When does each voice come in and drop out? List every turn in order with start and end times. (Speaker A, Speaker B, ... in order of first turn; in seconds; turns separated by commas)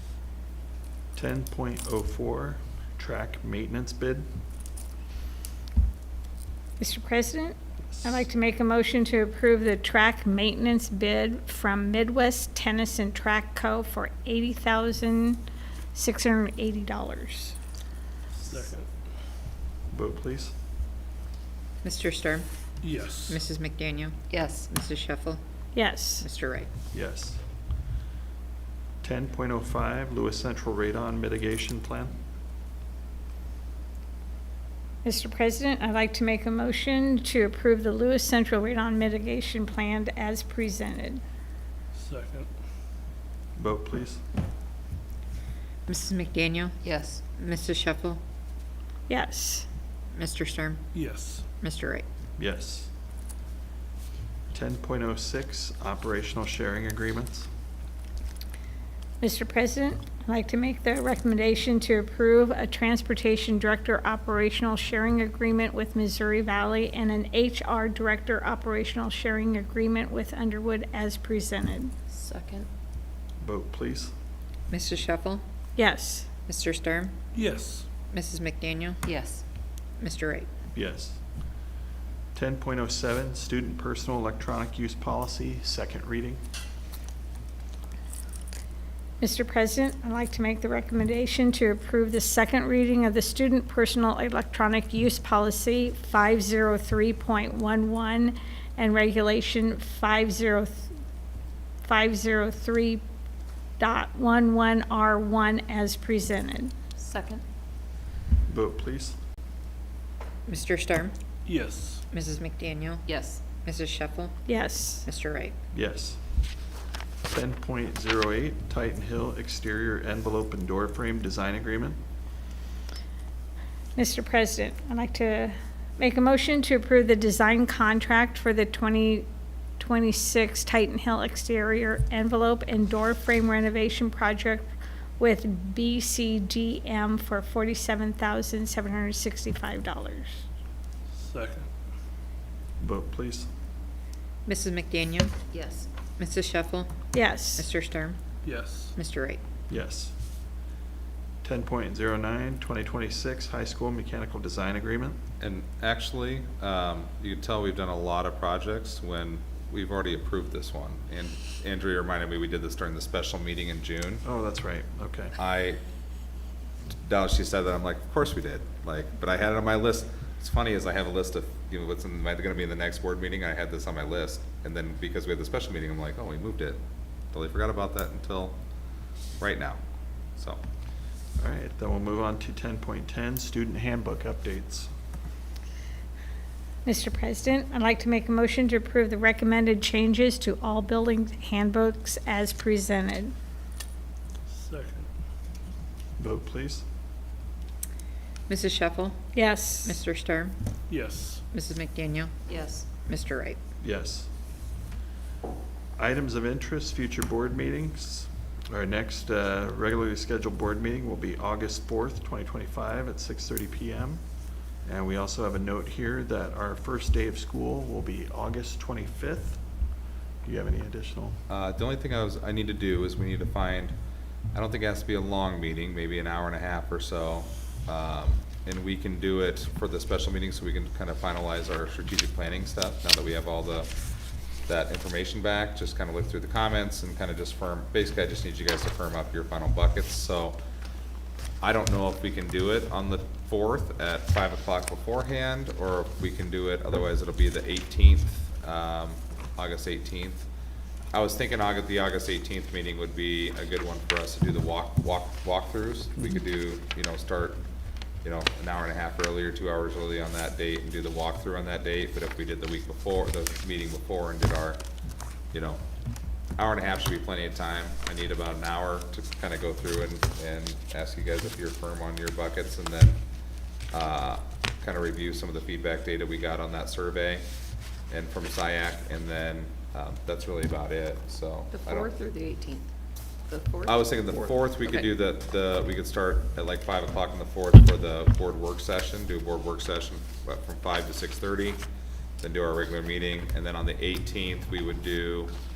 Speaker A: 1.1-4.2, Speaker B: 6.8-15.4, Speaker B: 15.9-17.6, Speaker C: 18.4-18.9, Speaker A: 19.9-20.5, Speaker D: 21.8-22.5, Speaker C: 22.8-23.4, Speaker D: 23.3-25.4, Speaker E: 24.3-24.6, Speaker B: 25.7-26.2, Speaker D: 26.2-26.7, Speaker A: 26.9-27.4, Speaker A: 29.0-32.1, Speaker B: 35.0-41.2, Speaker C: 41.9-42.5, Speaker A: 43.6-44.2, Speaker D: 45.9-48.2, Speaker E: 46.8-47.2, Speaker B: 49.1-49.6, Speaker D: 50.1-50.8, Speaker C: 50.9-51.4, Speaker D: 51.6-52.0, Speaker A: 52.4-52.9, Speaker A: 54.5-57.5, Speaker B: 59.2-71.9, Speaker E: 72.1-72.7, Speaker A: 73.4-74.1, Speaker D: 74.7-75.4, Speaker B: 75.8-76.3, Speaker D: 76.5-77.1, Speaker C: 77.3-77.9, Speaker D: 78.1-79.0, Speaker E: 79.0-79.4, Speaker D: 80.0-80.5, Speaker A: 80.7-81.2, Speaker A: 82.3-86.4, Speaker B: 89.2-100.9, Speaker B: 101.8-103.0, Speaker B: 103.8-106.7, Speaker E: 107.0-107.4, Speaker A: 108.5-109.2, Speaker D: 110.5-111.1, Speaker C: 111.5-112.0, Speaker D: 112.1-114.3, Speaker E: 113.0-113.4, Speaker B: 114.5-115.0, Speaker D: 115.0-115.5, Speaker A: 115.7-116.2, Speaker A: 117.3-122.0, Speaker B: 124.0-129.2, Speaker B: 129.8-140.3, Speaker C: 141.1-141.7, Speaker A: 142.8-143.5, Speaker D: 144.4-145.3, Speaker E: 145.5-145.9, Speaker D: 146.2-146.9, Speaker B: 147.1-147.7, Speaker D: 147.5-148.2, Speaker C: 148.4-148.9, Speaker D: 148.9-149.4, Speaker A: 149.7-150.1, Speaker A: 151.4-155.2, Speaker F: 155.4-164.2, Speaker A: 164.2-165.3, Speaker F: 165.4-165.8, Speaker F: 167.0-176.8, Speaker F: 177.3-178.6, Speaker F: 179.4-179.8, Speaker F: 180.3-180.6, Speaker A: 181.4-184.9, Speaker B: 186.8-193.3, Speaker C: 194.5-195.1, Speaker A: 196.2-196.8, Speaker D: 198.5-199.2, Speaker B: 199.3-200.0, Speaker D: 199.8-200.5, Speaker C: 200.9-201.4, Speaker D: 201.5-202.4, Speaker E: 202.4-202.9, Speaker D: 203.0-203.6, Speaker A: 203.8-204.3, Speaker A: 206.0-214.2, Speaker A: 214.8-219.6, Speaker A: 220.4-221.4, Speaker F: 221.5-223.9, Speaker F: 224.5-233.9, Speaker F: 234.7-240.6, Speaker F: 241.6-250.5, Speaker F: 251.1-257.6, Speaker F: 258.2-264.8, Speaker F: 265.5-265.8, Speaker F: 266.6-273.2, Speaker F: 273.9-277.4, Speaker F: 278.1-282.1, Speaker E: 281.7-282.9, Speaker E: 283.5-285.1, Speaker F: 283.8-291.8, Speaker F: 292.4-295.5